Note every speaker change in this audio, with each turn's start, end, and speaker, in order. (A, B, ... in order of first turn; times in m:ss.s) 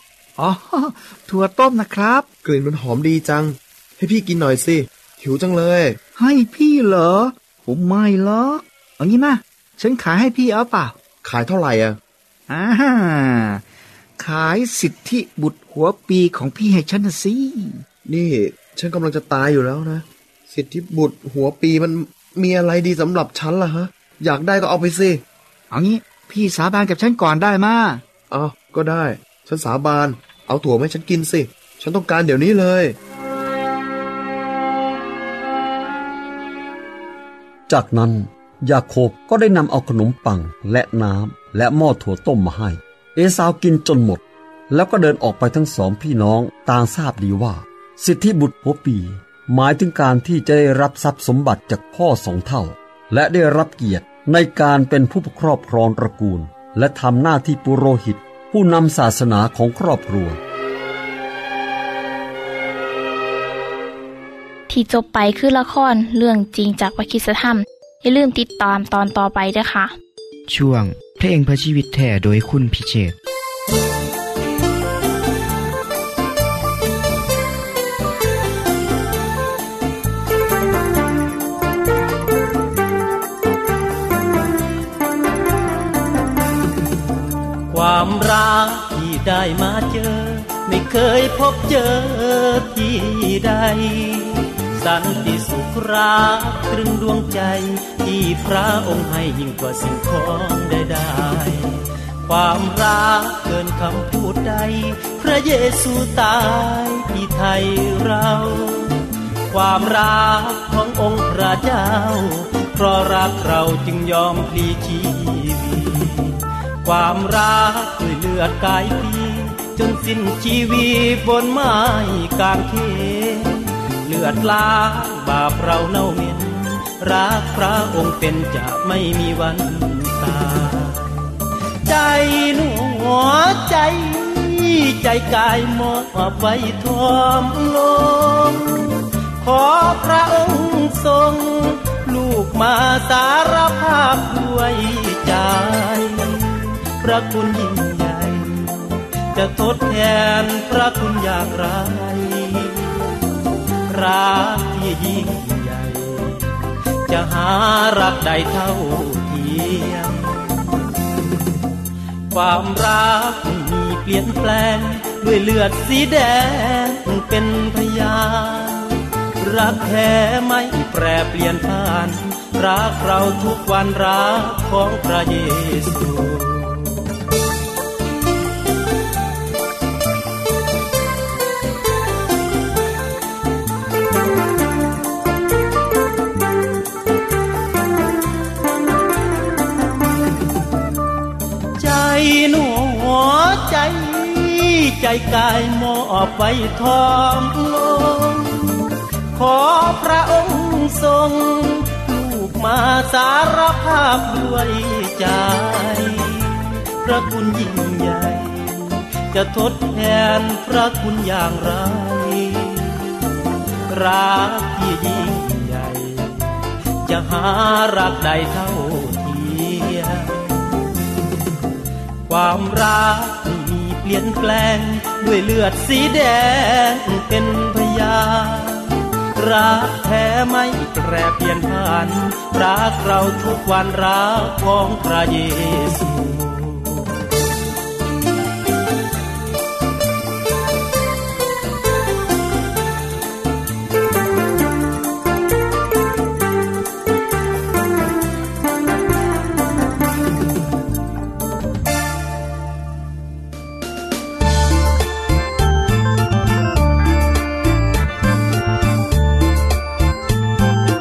0:00.4-0:02.3 A
0:02.4-0:06.0 B
0:06.2-0:11.0 A
0:11.2-0:12.0 B
0:12.5-0:13.6 A
0:14.2-0:17.8 A
0:18.1-0:25.2 B
0:25.7-0:28.0 A
0:28.3-0:33.0 B
0:37.7-1:00.4 C
1:04.7-1:09.9 D
1:10.5-1:13.2 E
1:27.7-1:49.0 F
1:49.5-2:11.2 F
2:11.9-2:33.0 F
2:33.9-2:40.6 F
2:42.3-2:57.0 F
3:11.8-3:33.0 F
3:33.9-3:36.4 F
3:37.0-3:40.5 F
3:42.3-3:57.1 F